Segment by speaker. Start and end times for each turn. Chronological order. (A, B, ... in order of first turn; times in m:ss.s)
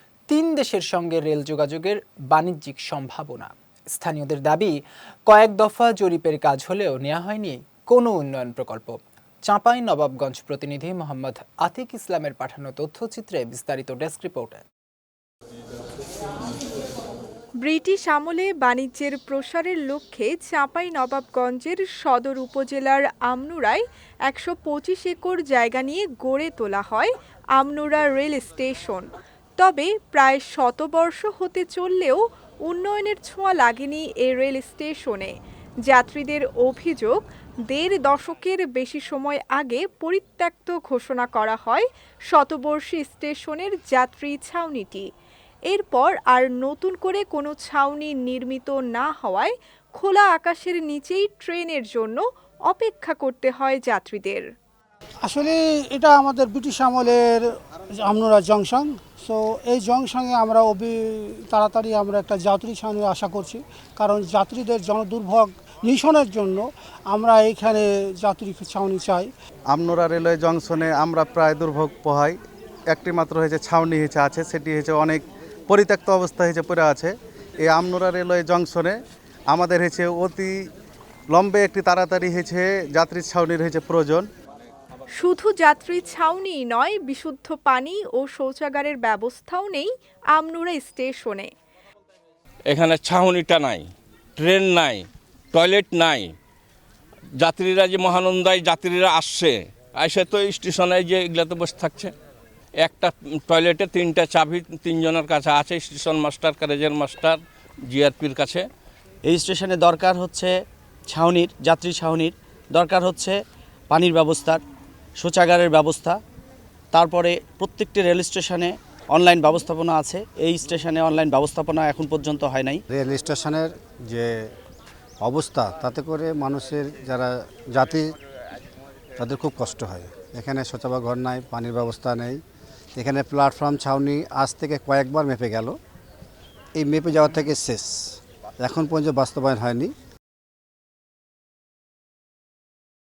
0:00.3-0:14.6 A
0:17.6-0:35.3 B
0:35.9-0:45.1 B
0:45.7-0:54.5 B
0:55.2-0:57.5 C
0:58.0-1:09.3 C
1:09.7-1:12.4 D
1:12.9-1:19.0 D
1:19.5-1:20.5 D
1:21.3-1:24.3 D
1:25.2-1:31.5 B
1:32.7-1:36.4 E
1:37.4-1:42.1 E
1:42.8-1:48.7 E
1:49.2-1:54.6 F
1:55.2-1:56.2 F
1:56.9-2:02.8 F
2:02.9-2:04.3 G
2:05.2-2:08.1 G
2:09.2-2:12.4 G
2:13.0-2:15.8 G
2:16.8-2:19.9 G